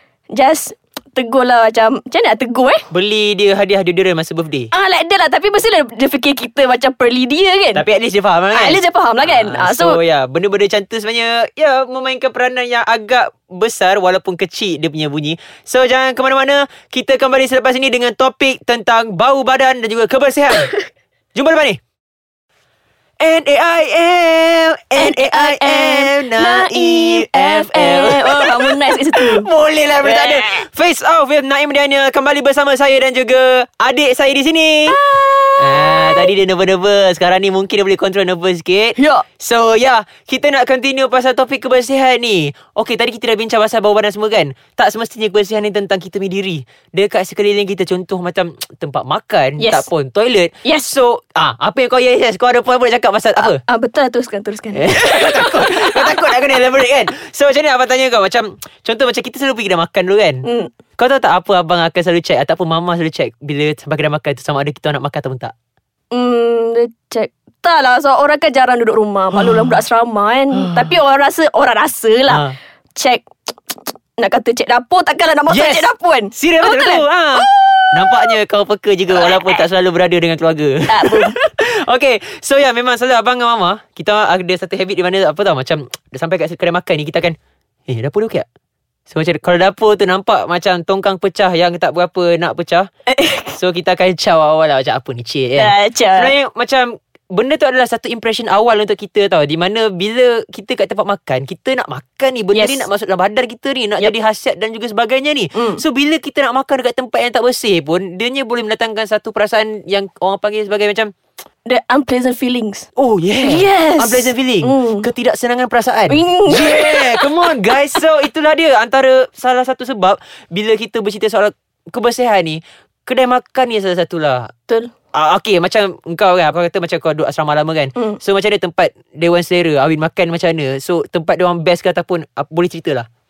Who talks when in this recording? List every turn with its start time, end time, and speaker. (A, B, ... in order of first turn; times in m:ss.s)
0:00.3-0:02.9 A
0:02.9-0:04.7 B
0:04.7-0:07.8 A
0:07.7-0:20.7 B
0:08.5-0:10.0 A
0:21.4-0:21.8 B
0:23.2-0:35.0 B
0:25.0-0:29.5 A
0:30.0-0:30.6 A
0:34.9-0:36.3 A
0:35.6-0:53.6 B
0:39.0-0:39.3 A
0:49.6-0:49.9 A
0:50.6-0:50.9 A
0:53.4-0:56.4 A
0:54.7-1:00.5 B
1:00.4-1:00.7 A
1:01.0-1:05.5 B
1:06.1-1:18.4 A
1:09.3-1:09.8 B
1:10.5-1:10.9 B
1:12.3-1:12.6 B
1:15.5-1:27.4 B
1:19.1-1:19.7 A
1:20.9-1:21.5 A
1:27.9-1:28.5 B
1:29.1-1:32.9 B
1:33.1-1:33.6 A
1:33.6-1:51.1 B
1:35.6-1:36.3 A
1:42.5-1:42.9 A
1:45.5-1:45.8 A
1:51.7-1:52.9 A
1:53.0-2:04.5 B
1:53.4-1:55.1 A
1:56.1-1:57.8 A
2:05.1-2:13.1 B